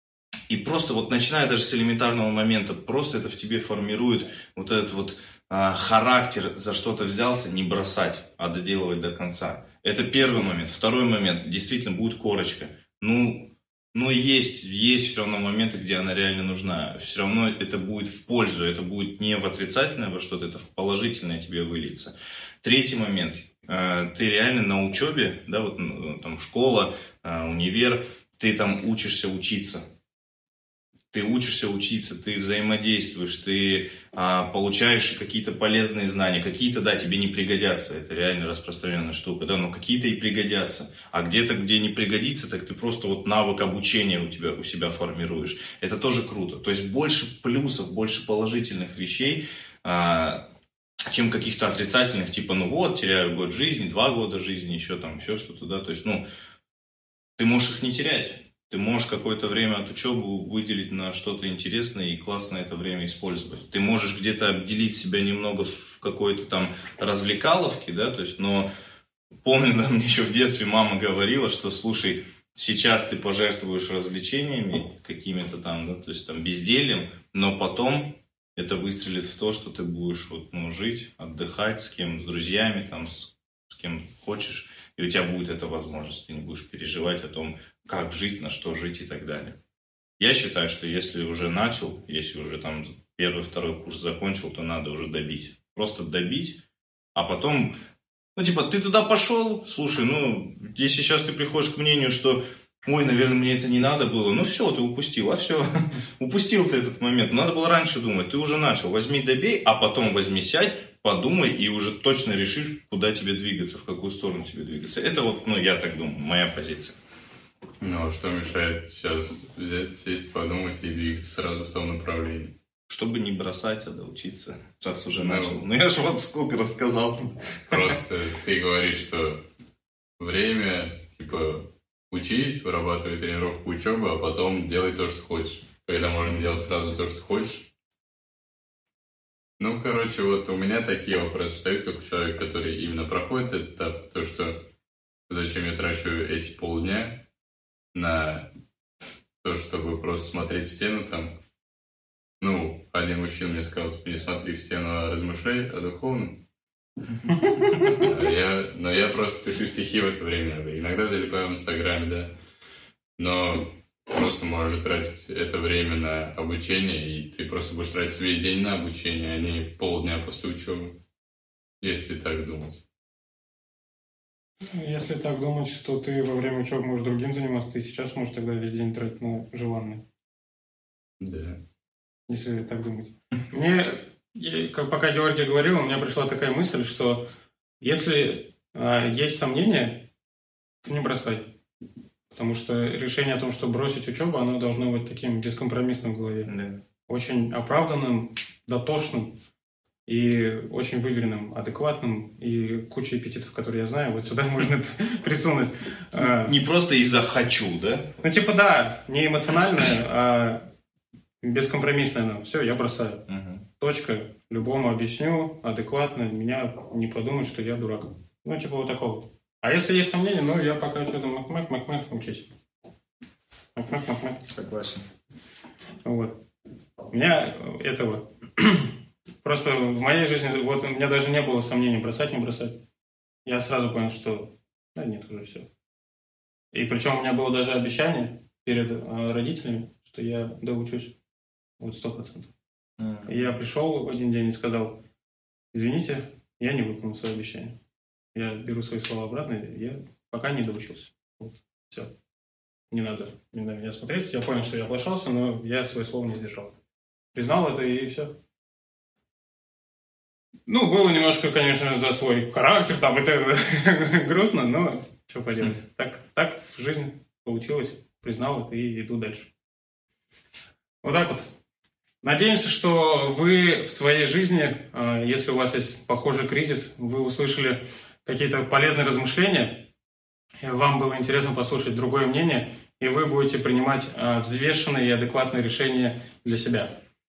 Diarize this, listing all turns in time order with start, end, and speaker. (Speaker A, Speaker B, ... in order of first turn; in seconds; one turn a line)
Speaker A: 0.5-29.8
Speaker A: 31.1-50.4
Speaker A: 51.1-56.2
Speaker A: 57.4-68.7
Speaker A: 69.4-89.6
Speaker A: 90.2-96.6
Speaker A: 97.2-97.8
Speaker A: 98.4-117.0
Speaker B: 117.8-122.5
Speaker A: 122.9-128.0
Speaker B: 125.2-125.6
Speaker B: 127.7-129.4
Speaker B: 130.2-137.7
Speaker B: 139.6-144.7
Speaker B: 145.3-147.2
Speaker B: 147.9-148.5
Speaker B: 149.4-151.3
Speaker B: 152.4-156.4
Speaker B: 157.9-162.3
Speaker B: 163.2-171.0
Speaker B: 171.8-172.8
Speaker C: 174.7-180.0
Speaker B: 181.2-181.6
Speaker C: 182.3-187.2
Speaker C: 187.8-190.1
Speaker C: 190.8-191.5
Speaker C: 192.3-196.5
Speaker A: 196.5-196.8
Speaker C: 197.1-199.3
Speaker C: 200.1-206.6
Speaker A: 206.2-208.2
Speaker C: 208.2-210.7
Speaker C: 211.4-213.2
Speaker A: 213.3-213.6
Speaker C: 213.8-222.5
Speaker C: 223.8-224.4
Speaker A: 224.5-225.0
Speaker C: 226.1-226.4
Speaker C: 227.1-232.8
Speaker C: 233.5-235.7
Speaker C: 236.7-241.1
Speaker C: 241.8-242.5
Speaker A: 243.0-243.4
Speaker C: 243.3-245.0
Speaker C: 245.7-247.8
Speaker C: 248.3-252.1
Speaker C: 252.9-256.7
Speaker C: 257.3-258.4
Speaker C: 260.7-269.5
Speaker C: 271.0-271.5
Speaker C: 272.2-279.9
Speaker C: 280.6-286.9